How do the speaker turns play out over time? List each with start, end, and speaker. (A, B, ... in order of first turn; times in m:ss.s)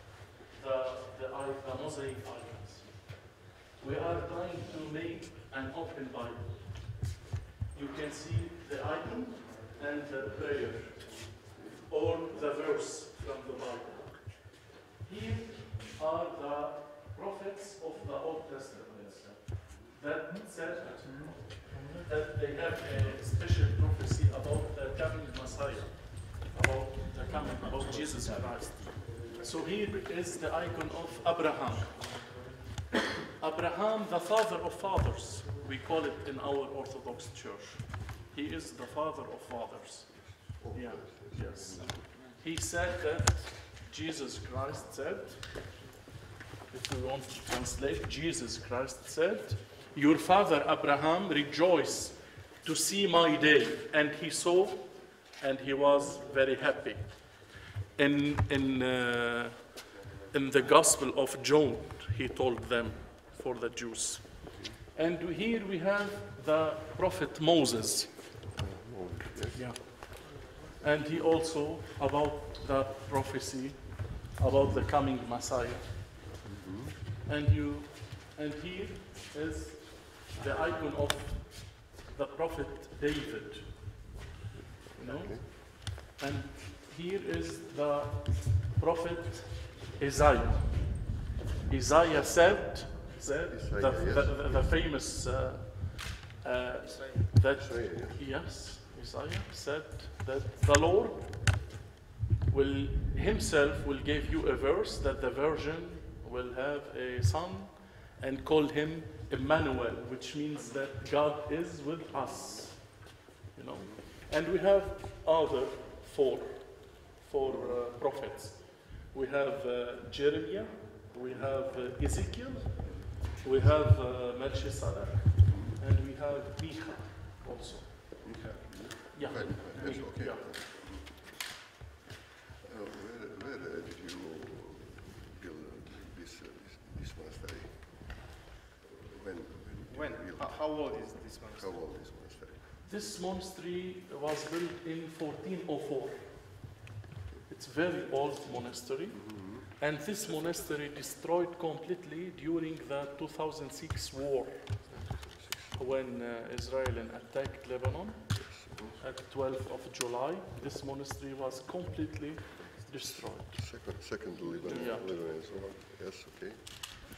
0:00.5-0:07.1 A
0:07.7-0:32.4 A
0:33.2-0:45.8 A
0:40.5-0:42.0 B
0:46.7-1:08.4 A
1:08.5-1:09.9 B
1:09.5-1:16.3 A
1:16.4-1:17.0 B
1:17.2-1:24.2 A
1:24.9-1:25.5 B
1:25.0-1:41.7 A
1:33.5-1:34.6 B
1:36.8-1:37.2 C
1:37.5-1:38.3 B
1:42.5-2:08.4 A
2:05.5-2:05.8 B
2:08.2-2:11.3 B
2:09.1-2:11.0 A
2:12.6-2:18.3 B
2:18.8-2:21.0 B
2:19.9-2:22.1 C
2:21.5-2:23.0 B
2:22.8-2:26.7 A
2:27.5-2:34.9 A
2:29.1-2:29.7 B
2:34.9-2:35.8 B
2:35.7-2:45.2 A
2:38.3-2:39.0 B
2:43.2-2:46.8 B
2:44.6-2:44.9 C